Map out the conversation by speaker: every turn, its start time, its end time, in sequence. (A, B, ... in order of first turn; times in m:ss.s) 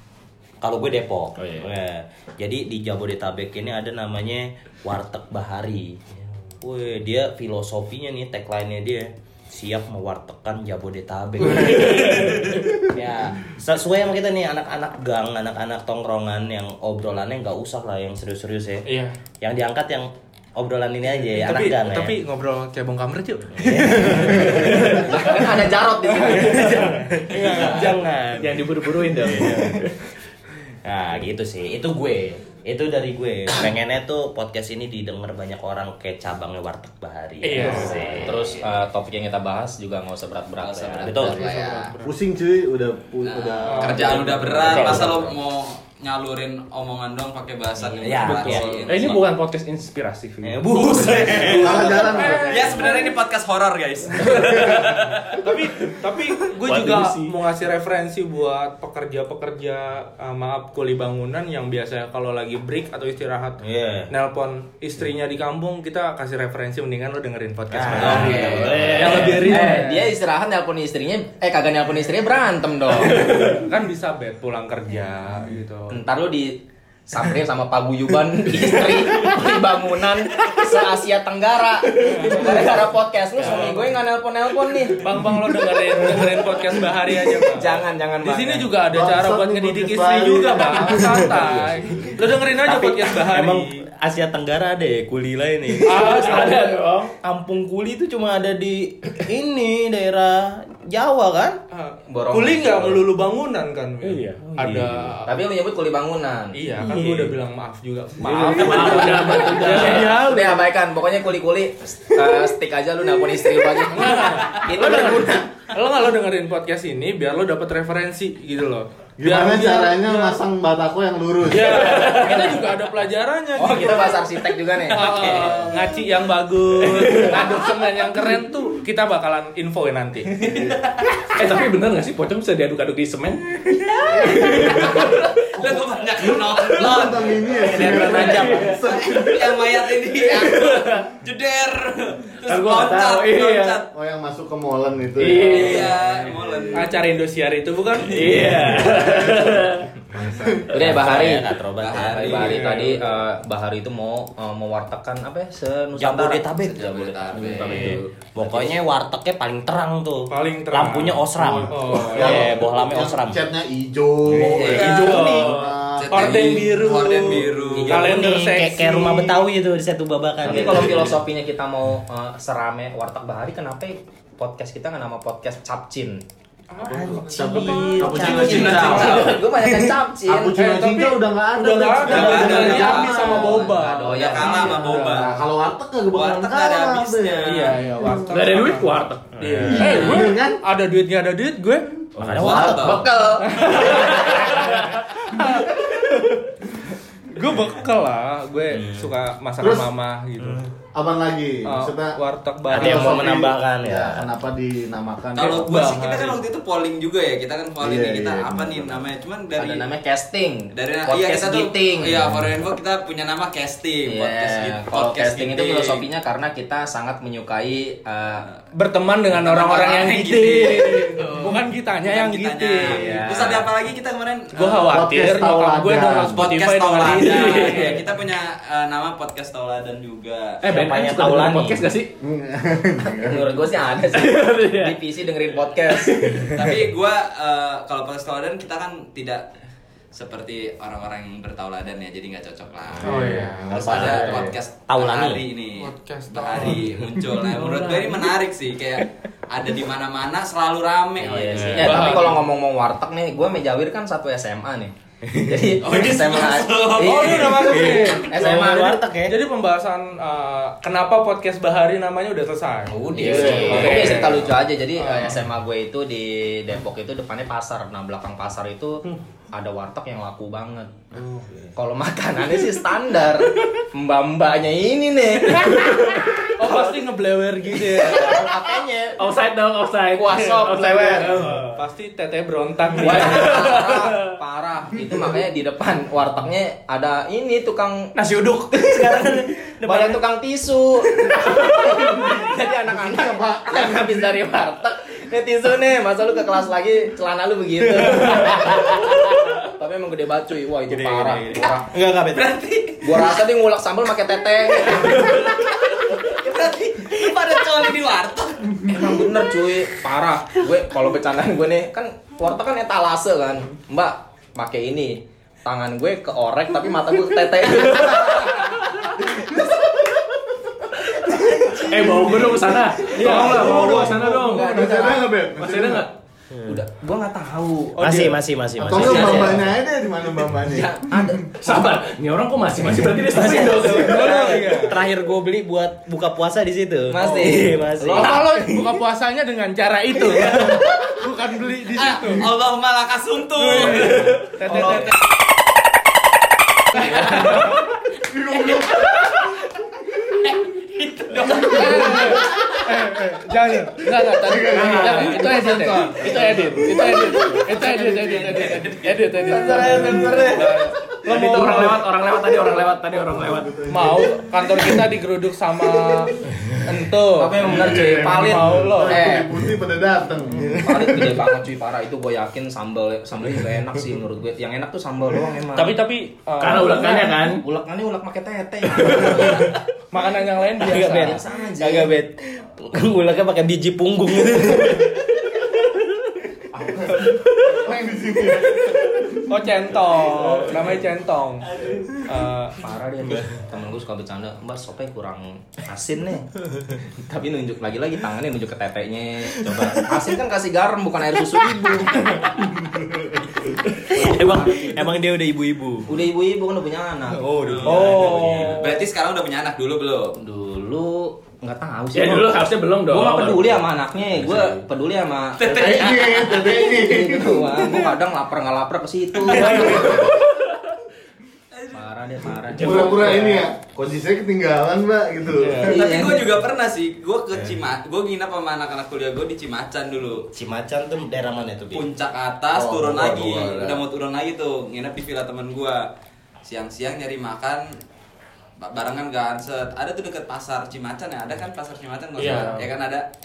0:00.6-0:06.0 A
0:01.4-0:01.7 B
0:06.6-0:18.9 A
0:11.7-0:12.8 B
0:18.8-0:19.2 C
0:19.4-0:22.2 A
0:21.3-0:25.3 C
0:23.6-0:24.7 A
0:24.5-0:25.2 B
0:24.9-0:26.8 D
0:26.1-0:28.0 C
0:27.3-0:28.6 A
0:28.4-0:30.0 B
0:29.2-0:29.8 A
0:30.8-0:38.6 A
0:37.4-0:38.2 C
0:38.2-0:41.4 D
0:40.6-0:41.9 E
0:41.0-0:41.4 A
0:41.2-0:45.2 F
0:41.5-0:42.1 C
0:43.2-0:49.3 E
0:43.6-0:44.6 C
0:44.5-0:45.3 A
0:47.8-0:48.7 D
0:48.0-0:48.8 A
0:48.2-0:51.5 B
0:50.4-0:52.2 A
0:50.7-0:51.8 E
0:51.3-0:52.8 F
0:51.7-0:53.2 C
0:52.5-0:55.4 E
0:54.3-0:54.9 B
0:55.4-1:03.6 C
0:56.6-0:57.4 B
1:03.6-1:04.1 A
1:04.1-1:10.1 C
1:07.7-1:09.7 A
1:08.0-1:13.3 D
1:08.2-1:09.4 B
1:08.3-1:08.6 E
1:13.2-1:13.6 B
1:13.2-1:16.0 C
1:15.9-1:25.0 D
1:22.0-1:22.7 C
1:23.4-1:23.9 C
1:25.0-1:33.8 C
1:27.5-1:28.7 D
1:28.9-1:31.4 F
1:31.4-1:32.1 B
1:32.6-1:36.6 A
1:35.8-1:36.7 C
1:36.2-1:37.1 B
1:37.2-1:41.6 A
1:41.7-1:45.4 C
1:42.1-1:43.0 D
1:44.0-1:44.6 B
1:44.6-1:45.1 A
1:45.2-1:46.6 D
1:46.5-1:50.7 C
1:46.9-1:47.2 A
1:48.2-1:50.1 B
1:48.5-1:55.5 D
1:48.8-1:49.3 E
1:53.9-2:00.4 C
1:59.2-2:02.0 F
2:01.5-2:04.2 C
2:01.9-2:02.5 B
2:03.6-2:05.6 D
2:04.9-2:10.6 C
2:06.8-2:07.7 B
2:10.4-2:10.7 F
2:10.5-2:11.2 E
2:11.3-2:15.7 B
2:14.3-2:15.0 F
2:14.7-2:17.3 E
2:16.3-2:19.8 F
2:16.5-2:17.0 B
2:17.6-2:19.2 B
2:17.7-2:18.7 A
2:18.8-2:23.9 E
2:20.3-2:21.1 B
2:22.4-2:23.8 B
2:23.9-2:27.0 F
2:25.2-2:26.0 B
2:25.3-2:26.9 E
2:26.7-2:28.6 C
2:28.0-2:29.9 B
2:28.5-2:29.6 F
2:30.1-2:31.0 F
2:30.7-2:36.4 D
2:30.7-2:32.6 A
2:31.8-2:32.8 E
2:32.4-2:33.2 C
2:36.0-2:43.4 A
2:36.6-2:38.0 E
2:37.3-2:38.1 B
2:40.3-2:42.4 C
2:41.4-2:46.5 F
2:44.3-2:45.1 A
2:44.5-2:45.1 E
2:44.5-2:45.7 B
2:44.5-2:45.4 D
2:46.0-2:48.1 E
2:46.1-2:49.4 C
2:47.7-2:51.2 A
2:50.4-2:56.2 D
2:56.7-2:58.4 C
2:56.8-3:03.7 F
2:56.8-2:59.2 A
2:58.0-2:59.4 E
2:58.2-3:00.6 D
3:00.6-3:05.5 C
3:02.0-3:05.3 E
3:03.6-3:04.6 D
3:04.4-3:08.5 F
3:06.1-3:07.8 E
3:07.4-3:12.0 C
3:08.3-3:09.9 B
3:09.5-3:10.2 A
3:09.6-3:10.6 F
3:12.2-3:12.6 B
3:12.2-3:13.1 A
3:12.4-3:13.1 E
3:12.4-3:12.8 F
3:12.8-3:14.2 D
3:13.4-3:16.4 C
3:13.9-3:15.1 B
3:17.3-3:20.7 C
3:18.7-3:19.1 A
3:19.6-3:19.9 F
3:20.9-3:22.2 F
3:21.6-3:23.3 C
3:22.7-3:24.3 A
3:22.7-3:26.3 F
3:25.3-3:29.9 E
3:25.6-3:26.4 C
3:27.8-3:29.1 F
3:29.6-3:32.3 D
3:30.7-3:36.0 E
3:34.0-3:38.4 D
3:38.7-3:43.0 C
3:39.3-3:41.2 E
3:41.2-3:41.5 D
3:42.0-3:45.0 E
3:42.9-3:43.6 D
3:43.3-3:43.6 A
3:44.5-3:47.9 C
3:44.9-3:46.5 F
3:46.3-3:50.6 E
3:47.2-3:48.0 B
3:50.6-3:52.1 B
3:50.6-3:51.8 A
3:52.2-3:53.7 F
3:53.2-3:56.2 D
3:54.1-3:55.0 B
3:55.9-3:56.6 B
3:56.5-3:59.5 E
4:00.1-4:11.7 E
4:03.0-4:05.4 A
4:03.0-4:04.2 C
4:05.7-4:06.9 C
4:07.3-4:08.3 B
4:11.2-4:12.2 A
4:11.2-4:19.0 D
4:11.8-4:12.4 C
4:15.3-4:15.6 A
4:15.8-4:18.2 E
4:17.0-4:18.3 C
4:17.7-4:19.4 A
4:19.2-4:25.4 C
4:22.9-4:31.1 D
4:23.2-4:24.2 F
4:23.6-4:24.2 A
4:31.7-4:35.8 D
4:35.6-4:36.6 B
4:36.6-4:38.3 C
4:37.8-4:39.2 D
4:39.2-4:41.7 B
4:40.1-4:41.4 D
4:41.0-4:43.5 C
4:43.0-4:48.1 D
4:43.0-4:44.3 B
4:48.1-4:50.2 A
4:49.8-5:01.9 D
4:52.0-4:52.4 F
4:52.9-4:54.3 F
4:58.2-4:58.6 B
5:00.9-5:02.6 A
5:02.3-5:03.2 E
5:03.0-5:05.1 D
5:04.7-5:09.0 E
5:08.9-5:18.8 D
5:17.8-5:19.2 B
5:19.3-5:20.4 F
5:21.0-5:26.1 F
5:21.2-5:25.3 D
5:21.9-5:24.8 B
5:23.2-5:24.1 C
5:25.6-5:26.1 B
5:26.5-5:26.8 A
5:26.7-5:28.0 D
5:28.0-5:28.3 C
5:28.0-5:29.6 A
5:28.8-5:30.9 F
5:28.9-5:29.7 D
5:30.7-5:31.9 D
5:31.6-5:34.4 B
5:33.3-5:38.8 A
5:33.4-5:35.0 C
5:37.1-5:38.4 D
5:38.1-5:42.4 C
5:40.4-5:40.8 E
5:41.9-5:45.3 E
5:43.5-5:45.1 C
5:44.7-5:45.0 D
5:47.0-5:47.8 C
5:47.1-5:47.6 F
5:47.1-5:47.7 E
5:48.3-5:49.3 F
5:48.5-5:49.3 E
5:50.4-5:52.8 E
5:51.4-5:52.1 F
5:51.6-6:02.0 C
5:51.7-5:52.2 D
5:54.1-5:57.6 F
5:54.7-5:56.9 B
5:57.9-5:58.6 A
5:57.9-5:58.7 D
5:59.4-6:00.7 D
5:59.5-6:00.6 A
6:01.0-6:01.4 F
6:01.2-6:03.8 B
6:02.3-6:04.9 F
6:03.9-6:09.2 C
6:05.9-6:06.3 F
6:07.3-6:09.5 D
6:07.6-6:11.4 F
6:10.8-6:15.9 D
6:15.7-6:17.2 C
6:16.6-6:17.6 B
6:16.9-6:19.7 D
6:20.1-6:21.4 C
6:20.8-6:25.1 A
6:21.0-6:22.2 D
6:26.7-6:29.5 F
6:27.5-6:27.8 A
6:29.5-6:32.8 C
6:30.3-6:30.7 F
6:32.8-6:36.5 D
6:37.2-6:42.3 D
6:39.6-6:40.1 A
6:44.1-6:45.1 D
6:44.1-6:46.2 A
6:46.1-6:48.4 D
6:47.4-6:48.8 A
6:47.6-6:50.3 E
6:47.8-6:48.9 C
6:50.4-7:00.3 D
6:52.1-6:54.8 B
6:55.6-6:56.8 E
6:55.6-6:57.9 F
6:59.4-7:00.2 E
6:59.8-7:00.8 B
7:01.7-7:02.0 E
7:01.9-7:03.2 D
7:02.7-7:03.3 B
7:02.8-7:06.2 F
7:03.2-7:03.7 C
7:05.6-7:05.9 C
7:05.8-7:06.5 D
7:05.9-7:10.5 E
7:10.5-7:12.1 A
7:11.9-7:16.0 E
7:12.7-7:14.0 A
7:16.6-7:17.8 E
7:18.8-7:23.2 E
7:22.4-7:22.8 C
7:22.6-7:22.9 B